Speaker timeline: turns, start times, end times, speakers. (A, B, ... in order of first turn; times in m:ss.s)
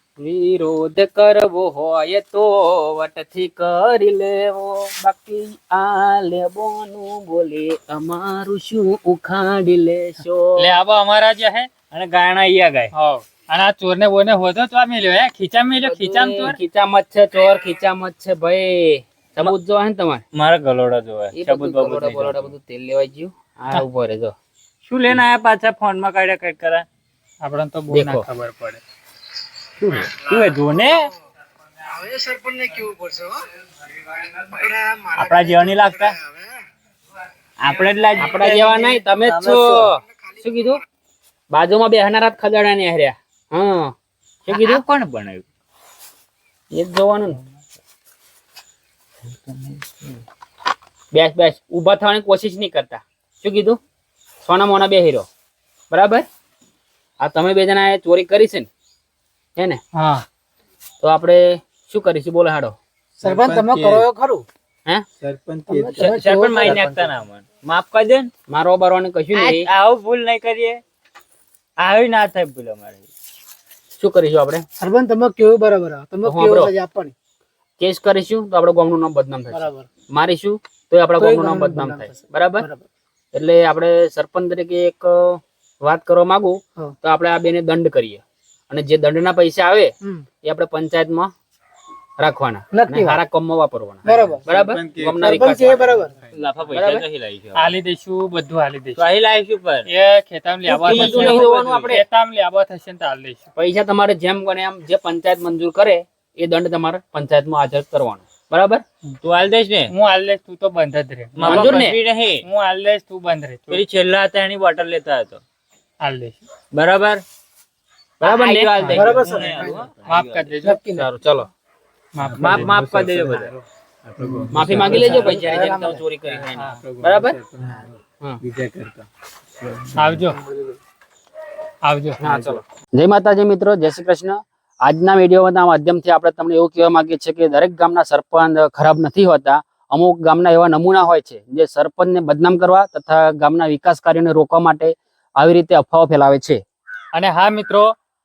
0:00.2-0:10.6 A
0:10.6-0:11.7 B
0:11.9-0:12.9 C
0:12.9-0:16.6 B
0:15.8-0:20.2 A
0:20.3-0:22.5 C
0:21.3-0:24.4 A
0:24.8-0:26.9 C
0:27.4-0:28.8 B
0:27.9-0:28.2 A
0:29.8-0:31.1 C
0:31.9-0:33.4 D
0:34.5-0:35.8 D
0:35.1-0:36.2 C
0:37.6-0:39.8 C
0:38.1-0:40.8 A
0:41.5-0:43.9 A
0:44.5-0:44.8 A
0:44.5-0:45.4 C
0:46.7-0:47.4 A
0:49.5-0:50.2 C
0:51.1-0:53.8 A
0:54.4-0:55.3 A
0:55.9-0:56.3 A
0:57.2-0:58.7 A
0:59.6-0:59.8 A
0:59.9-1:00.2 B
1:01.0-1:02.8 A
1:03.2-1:04.1 E
1:03.2-1:04.4 D
1:05.2-1:07.0 E
1:05.7-1:06.9 D
1:06.0-1:08.3 C
1:08.5-1:09.7 A
1:09.3-1:10.8 C
1:11.8-1:13.0 C
1:14.0-1:14.6 A
1:14.8-1:17.1 D
1:16.2-1:16.7 A
1:17.8-1:22.7 A
1:19.5-1:19.9 D
1:21.2-1:22.8 D
1:23.3-1:31.3 A
1:32.2-1:35.9 A
1:32.7-1:33.2 D
1:34.0-1:34.4 D
1:34.3-1:36.4 E
1:35.2-1:36.1 D
1:36.3-1:37.5 C
1:36.7-1:37.1 A
1:37.5-1:39.0 B
1:39.0-1:39.9 C
1:39.9-1:43.5 B
1:40.7-1:42.0 A
1:40.8-1:42.0 C
1:43.6-1:48.8 A
1:49.2-1:49.9 C
1:49.9-1:53.8 B
1:51.4-1:52.4 C
1:51.4-1:52.0 A
1:53.7-1:55.4 C
1:56.0-1:56.4 B
1:56.7-1:57.2 C
1:58.2-2:00.6 C
1:58.2-1:58.7 A
1:58.7-1:59.2 B
1:58.8-1:59.9 D
2:00.0-2:00.8 B
2:00.6-2:01.1 D
2:01.0-2:01.5 A
2:02.2-2:02.7 B
2:02.2-2:05.5 E
2:02.4-2:03.5 C
2:04.2-2:06.0 D
2:04.5-2:07.4 A
2:06.2-2:09.1 E
2:06.6-2:06.8 B
2:09.6-2:10.2 E
2:10.0-2:10.4 B
2:10.5-2:10.8 D
2:11.8-2:12.6 B
2:12.2-2:26.6 A
2:27.1-2:27.9 B